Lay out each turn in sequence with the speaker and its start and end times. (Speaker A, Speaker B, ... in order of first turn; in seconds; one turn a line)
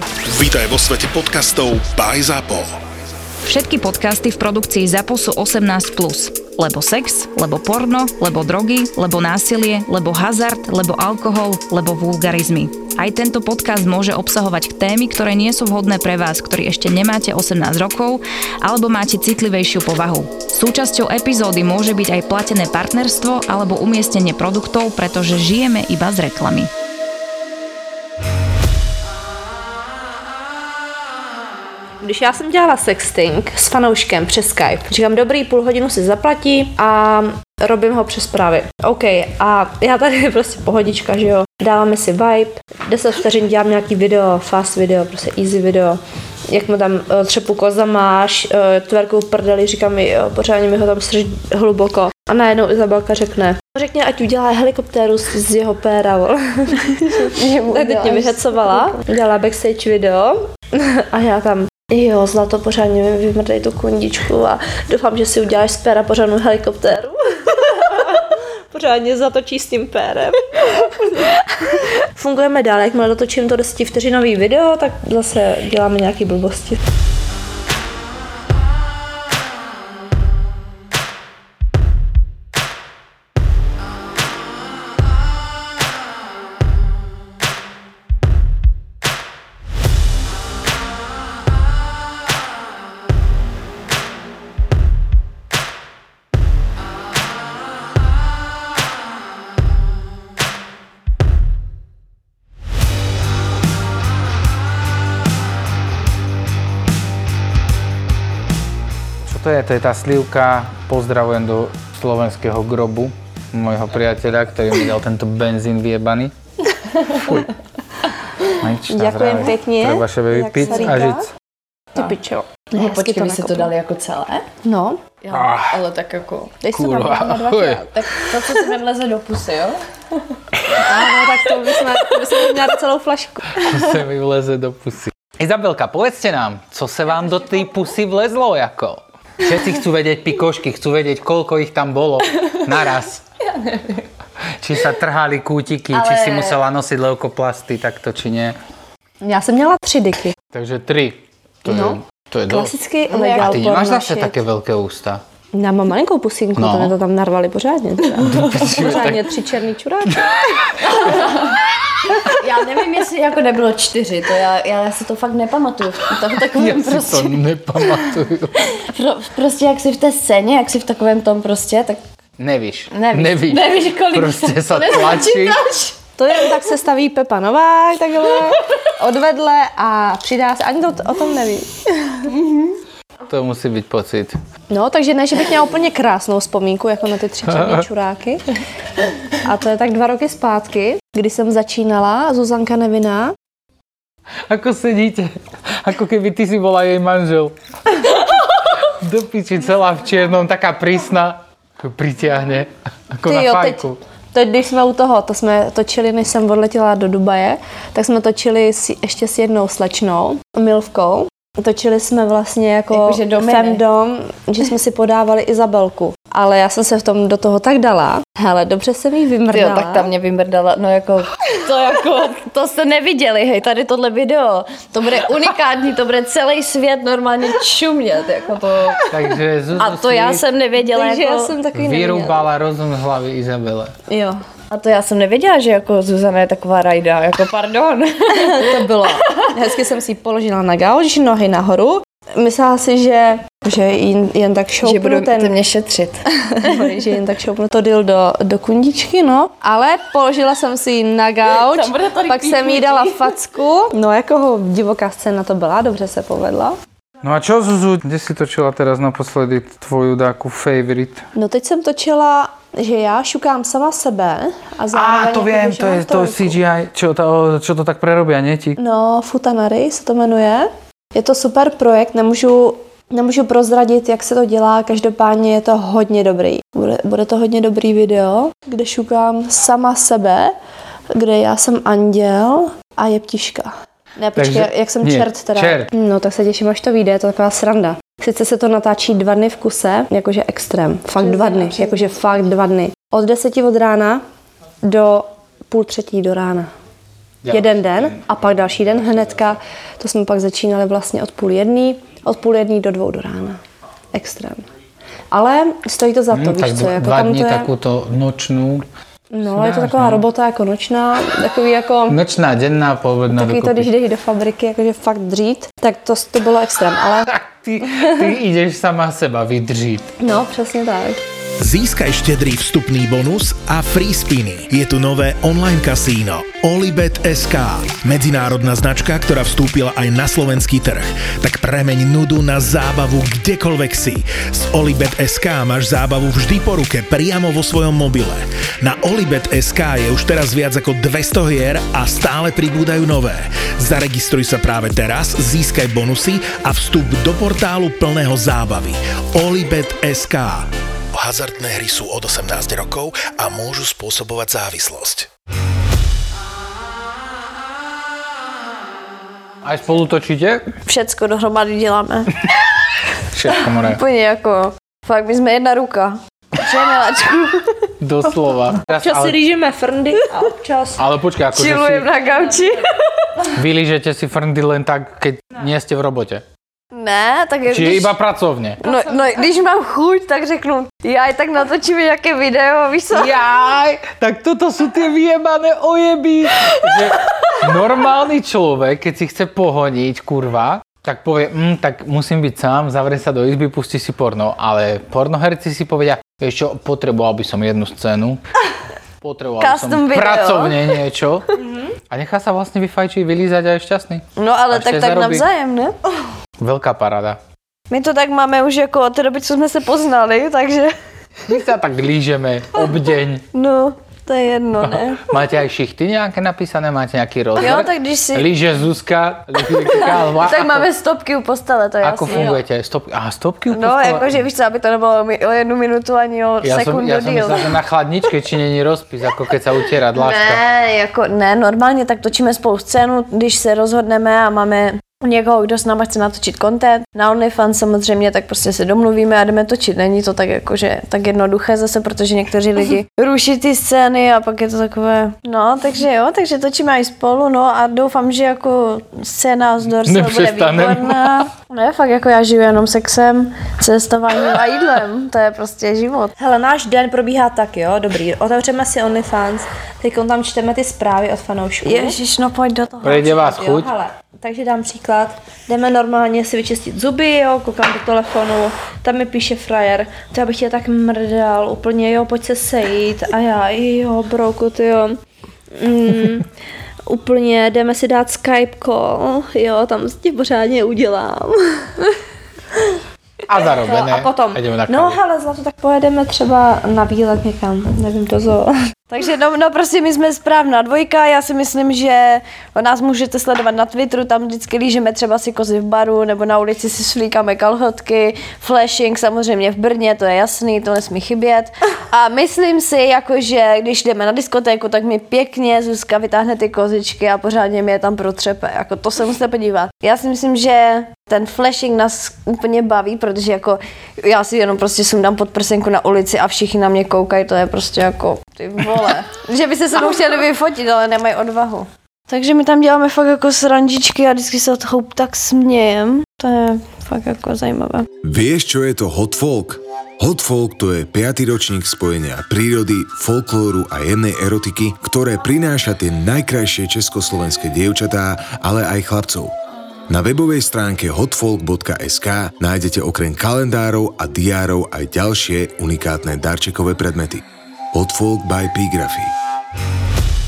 Speaker A: 0.3-2.7
Speaker B: 3.5-26.7
Speaker C: 32.0-67.2
Speaker D: 57.2-59.0
Speaker C: 67.9-68.2
Speaker C: 68.7-71.3
Speaker C: 72.2-76.8
Speaker E: 109.2-116.3
Speaker E: 117.2-117.5
Speaker E: 118.6-121.3
Speaker C: 118.8-121.3
Speaker D: 120.7-121.0
Speaker C: 122.0-123.7
Speaker D: 122.8-124.5
Speaker C: 124.6-125.0
Speaker D: 125.2-126.6
Speaker E: 125.3-125.8
Speaker C: 126.6-128.6
Speaker E: 126.7-127.9
Speaker D: 128.0-129.8
Speaker C: 130.8-133.6
Speaker E: 133.6-143.2
Speaker E: 144.6-148.6
Speaker D: 145.9-146.6
Speaker C: 149.2-150.3
Speaker E: 150.5-152.7
Speaker C: 151.7-154.4
Speaker D: 153.1-153.6
Speaker E: 153.3-155.2
Speaker C: 155.5-160.7
Speaker E: 156.6-156.9
Speaker E: 158.2-159.3
Speaker D: 160.8-161.6
Speaker D: 162.2-172.0
Speaker E: 166.3-168.7
Speaker E: 172.4-175.6
Speaker D: 172.9-175.9
Speaker C: 176.2-182.3
Speaker D: 182.4-182.7
Speaker E: 183.3-184.4
Speaker C: 184.7-188.4
Speaker E: 187.5-187.8
Speaker C: 189.4-193.3
Speaker E: 194.5-204.0
Speaker C: 203.2-220.1
Speaker D: 212.9-213.8
Speaker D: 219.5-229.1
Speaker E: 229.0-230.5
Speaker D: 229.8-231.6
Speaker C: 230.8-232.5
Speaker E: 231.7-233.9
Speaker C: 234.1-234.4
Speaker D: 234.7-239.3
Speaker C: 238.3-245.5
Speaker D: 244.8-247.2
Speaker C: 246.6-256.8
Speaker D: 251.5-253.4
Speaker E: 257.2-261.2
Speaker C: 261.4-266.6
Speaker E: 264.9-268.8
Speaker C: 268.8-280.5
Speaker C: 281.1-294.2
Speaker E: 284.4-285.9
Speaker C: 294.8-296.7
Speaker E: 297.4-299.5
Speaker C: 297.5-303.6
Speaker C: 304.1-304.6
Speaker C: 305.3-307.7
Speaker E: 306.3-308.9
Speaker C: 309.3-312.2
Speaker E: 309.5-310.2
Speaker E: 312.1-313.9
Speaker C: 313.3-317.3
Speaker E: 317.3-320.1
Speaker C: 320.2-321.2
Speaker A: 321.6-355.3
Speaker E: 359.6-360.7
Speaker D: 360.9-362.3
Speaker E: 363.3-364.0
Speaker D: 363.8-367.9
Speaker E: 368.0-369.4
Speaker C: 369.0-371.1
Speaker E: 371.0-372.1
Speaker D: 371.5-373.3
Speaker E: 373.6-376.4
Speaker D: 376.9-378.1
Speaker E: 377.6-378.8
Speaker D: 378.8-383.4
Speaker E: 383.1-398.4
Speaker E: 399.2-401.5
Speaker D: 399.6-401.0
Speaker E: 402.1-405.5
Speaker D: 404.4-405.9
Speaker E: 406.6-407.4
Speaker D: 407.9-410.9
Speaker E: 411.5-413.4
Speaker D: 413.5-415.2
Speaker E: 415.2-420.9
Speaker D: 417.6-418.5
Speaker D: 419.7-422.6
Speaker E: 422.0-424.4
Speaker D: 423.7-427.7
Speaker E: 426.6-430.6
Speaker D: 430.1-456.3
Speaker E: 450.0-451.4
Speaker C: 456.4-462.2
Speaker D: 461.8-463.3
Speaker E: 463.0-463.9
Speaker C: 463.2-475.2
Speaker C: 475.8-476.5
Speaker C: 477.1-482.0
Speaker E: 483.5-485.2
Speaker C: 483.9-488.7
Speaker D: 489.1-528.1
Speaker F: 528.2-539.5
Speaker F: 540.1-547.4
Speaker F: 547.9-549.3